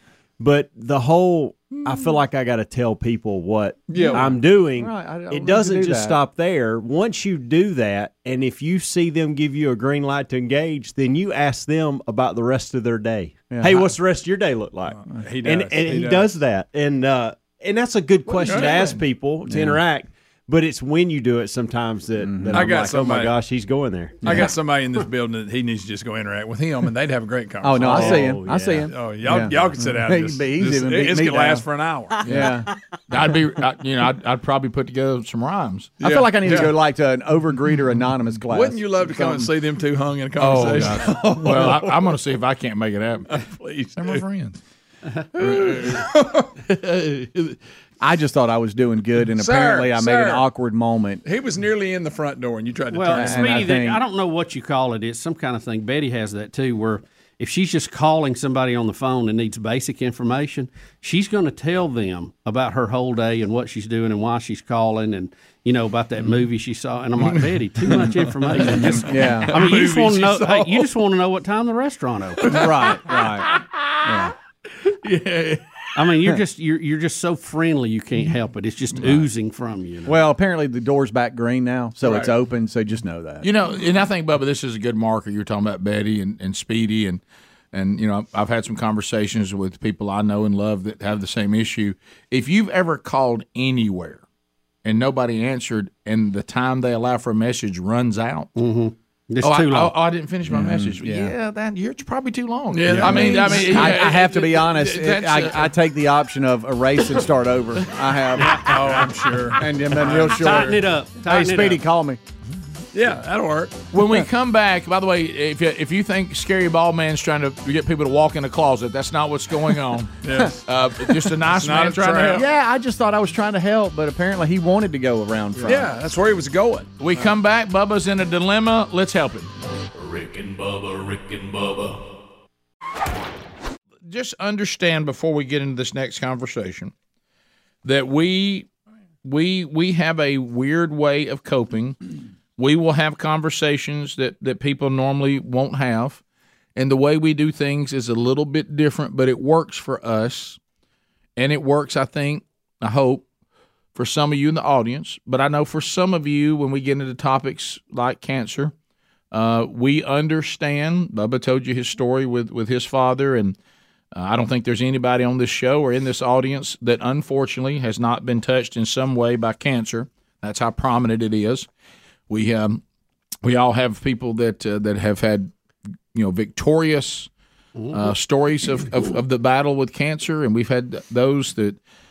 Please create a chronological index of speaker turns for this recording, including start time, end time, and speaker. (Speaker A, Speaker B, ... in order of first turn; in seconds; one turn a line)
Speaker A: 0.4-24.5
Speaker B: 3.9-6.2
Speaker B: 13.5-13.9
Speaker C: 15.0-16.3
Speaker C: 18.3-19.0
Speaker B: 19.4-19.8
Speaker B: 22.2-22.8
Speaker C: 22.5-23.4
Speaker C: 24.2-32.6
Speaker B: 24.2-24.5
Speaker B: 27.6-31.7
Speaker A: 27.8-28.9
Speaker B: 32.2-32.7
Speaker D: 32.3-32.6
Speaker D: 33.1-36.0
Speaker C: 36.0-36.8
Speaker B: 36.0-39.5
Speaker C: 38.4-42.1
Speaker D: 40.4-43.4
Speaker C: 43.3-44.6
Speaker D: 44.0-44.3
Speaker C: 45.4-46.5
Speaker D: 45.4-46.0
Speaker D: 46.6-47.6
Speaker B: 48.0-51.2
Speaker C: 49.2-50.5
Speaker C: 51.2-53.6
Speaker E: 52.9-72.6
Speaker B: 53.1-54.0
Speaker C: 67.8-70.9
Speaker B: 69.0-69.5
Speaker B: 72.5-74.3
Speaker D: 73.2-74.2
Speaker D: 74.8-75.8
Speaker E: 76.0-80.2
Speaker B: 80.1-83.5
Speaker C: 82.0-82.3
Speaker D: 83.4-94.2
Speaker D: 94.8-98.5
Speaker E: 98.6-100.0
Speaker D: 99.4-105.7
Speaker B: 100.5-101.3
Speaker C: 102.7-104.0
Speaker B: 103.0-112.2
Speaker C: 108.4-110.7
Speaker E: 108.4-108.8
Speaker E: 110.0-111.8
Speaker C: 112.9-113.9
Speaker D: 113.9-122.4
Speaker C: 120.2-120.6
Speaker C: 121.3-122.5
Speaker B: 122.3-125.9
Speaker C: 125.6-127.4
Speaker D: 127.0-129.5
Speaker F: 129.9-132.0
Speaker D: 134.1-136.9
Speaker D: 137.8-138.7
Speaker D: 139.2-142.0
Speaker D: 142.6-146.2
Speaker D: 146.8-150.6
Speaker D: 151.4-153.3
Speaker D: 153.9-158.7
Speaker D: 159.3-163.6
Speaker D: 164.1-171.7
Speaker D: 172.3-172.8
Speaker D: 173.4-175.5
Speaker D: 176.1-177.3
Speaker E: 177.8-178.1
Speaker D: 177.9-181.8